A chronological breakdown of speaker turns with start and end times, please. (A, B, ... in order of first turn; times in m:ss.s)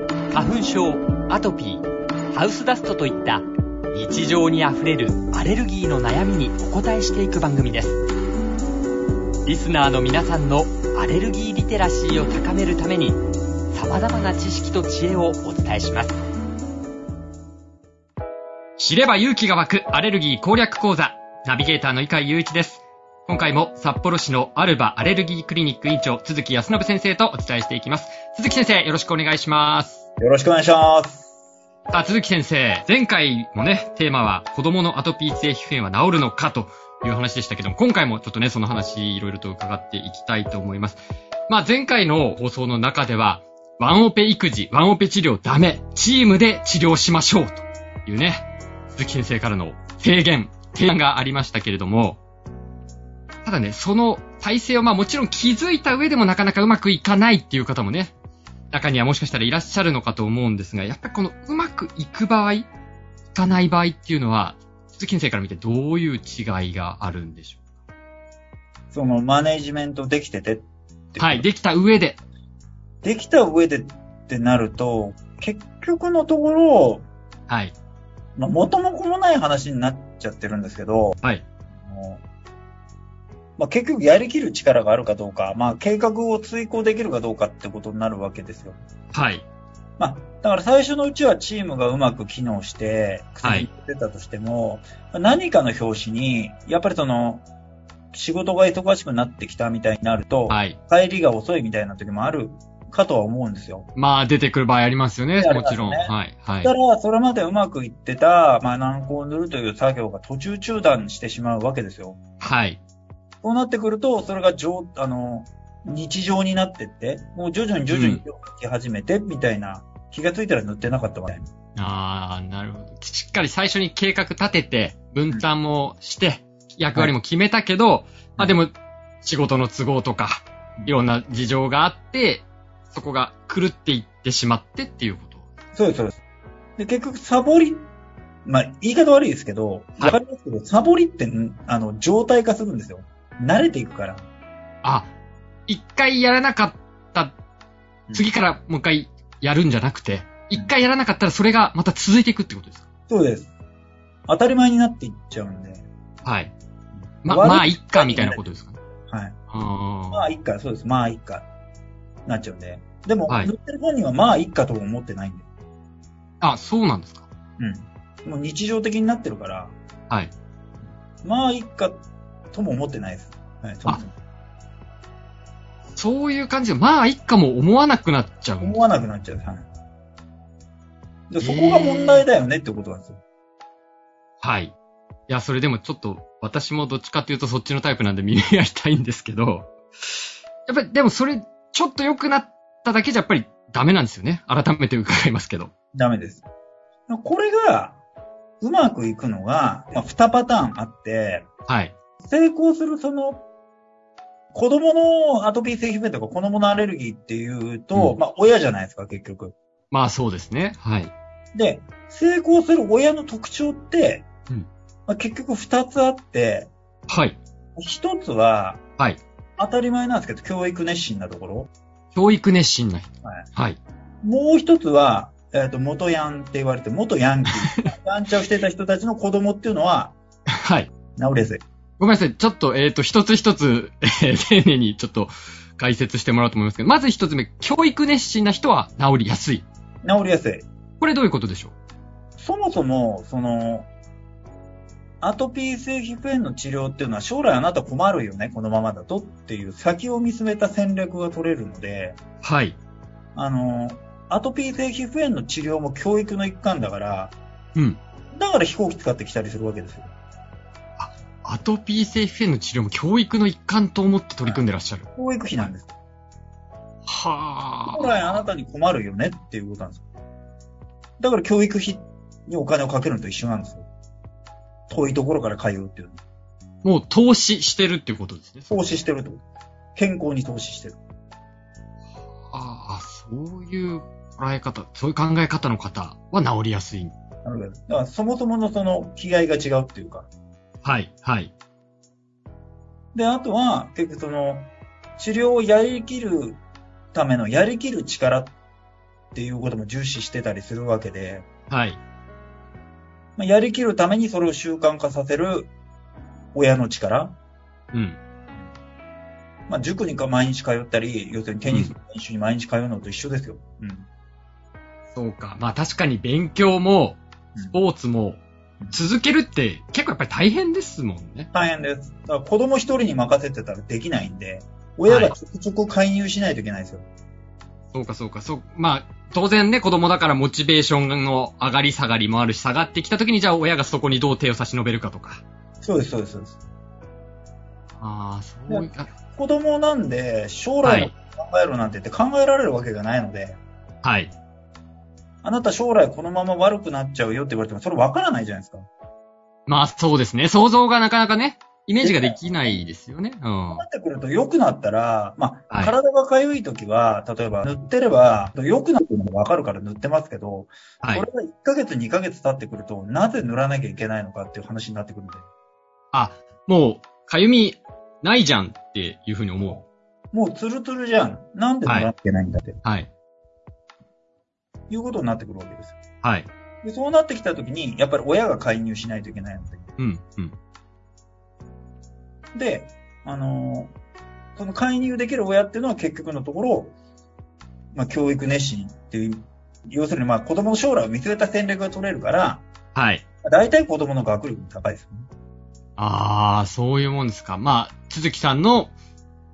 0:00.3-0:08.0 A
0:09.4-0:13.2 A
0:13.7-0:16.2 A
0:18.8-0:30.0 A
0:30.2-0:31.3 B
0:31.9-0:52.2 A
0:53.4-0:58.1 A
0:58.7-1:02.7 A
1:03.3-1:07.6 A
1:08.9-1:11.5 B
1:11.2-1:12.2 A
1:13.0-1:17.0 B
1:17.5-1:17.7 A
1:18.4-1:21.2 B
1:21.8-1:22.2 B
1:23.6-1:28.8 B
1:29.1-1:29.4 A
1:30.0-1:37.4 B
1:33.4-1:33.7 A
1:38.1-1:43.9 B
1:40.5-1:40.8 A
1:44.0-1:46.7 A
1:45.4-1:52.2 B
1:52.4-1:52.8 A
1:53.4-2:01.5 B
1:57.9-1:58.2 A
2:01.8-2:15.5 A
2:15.7-2:16.2 B
2:16.8-2:17.8 B
2:18.4-2:24.2 B
2:24.8-2:25.1 A
2:25.7-2:27.3 A
2:28.1-2:32.8 A
2:33.1-2:33.5 B
2:34.3-2:35.9 B
2:36.2-2:36.5 A
2:37.1-2:38.5 B
2:37.2-2:38.8 A
2:39.1-2:39.4 B
2:39.5-2:40.3 A
2:40.1-2:41.5 B
2:42.2-2:45.5 B
2:46.4-2:47.3 A
2:47.6-2:49.7 B
2:51.2-2:52.0 B
2:52.5-2:54.1 B
2:55.9-2:58.8 A
2:58.6-2:59.7 B
3:01.3-3:03.2 B
3:01.4-3:02.3 A
3:04.4-3:04.7 A
3:05.3-3:09.7 A
3:10.7-3:15.7 A
3:15.9-3:16.4 B
3:17.1-3:18.0 B
3:18.6-3:21.5 B
3:21.7-3:21.9 A
3:22.2-3:23.4 B
3:24.5-3:29.5 B
3:29.9-3:31.1 A
3:31.5-3:34.2 B
3:35.1-3:36.7 B
3:37.1-3:37.4 A
3:37.8-3:38.8 B
3:39.6-3:41.7 B
3:42.1-3:43.8 A
3:44.2-3:50.2 B
3:50.6-3:50.9 A
3:51.2-3:51.6 B
3:52.0-3:59.6 A
4:00.0-4:00.6 B
4:01.0-4:01.7 A
4:02.4-4:03.9 B
4:05.2-4:12.2 B
4:12.4-4:12.8 A
4:13.3-4:17.3 B
4:18.3-4:20.1 B
4:21.0-4:25.7 A
4:25.2-4:25.9 B
4:27.0-4:28.4 A
4:27.9-4:30.0 B
4:31.2-4:33.8 B
4:34.9-4:36.2 B
4:36.8-4:38.9 A
4:38.7-4:39.4 B
4:40.0-4:41.0 B
4:42.5-4:47.1 A
4:47.4-4:50.3 B
4:50.8-4:51.5 A
4:53.1-4:56.6 B
4:57.1-4:58.5 B
4:59.3-5:01.4 B
5:01.7-5:02.0 A
5:03.4-5:05.7 B
5:06.5-5:07.4 B
5:07.9-5:08.2 A
5:09.7-5:14.1 B
5:11.7-5:11.9 A
5:15.1-5:21.5 A
5:21.5-5:27.0 B
5:25.1-5:25.3 A
5:27.9-5:35.4 A
5:35.8-5:36.6 B
5:38.0-5:39.1 A
5:38.7-5:43.6 B
5:40.8-5:41.1 A
5:44.0-5:44.3 A
5:45.4-5:48.8 B
5:49.7-5:53.8 A
5:52.0-5:52.8 B
5:53.7-6:05.5 B
6:01.0-6:01.3 A
6:06.1-6:09.8 A
6:10.3-6:12.8 B
6:11.8-6:12.1 A
6:12.8-6:13.1 A
6:14.9-6:16.0 B
6:16.2-6:16.5 A
6:16.8-6:19.9 B
6:20.0-6:20.5 A
6:22.5-6:23.9 B
6:24.6-6:26.9 B
6:27.9-6:32.6 B
6:32.9-6:33.2 A
6:33.4-6:35.3 B
6:36.0-6:38.9 A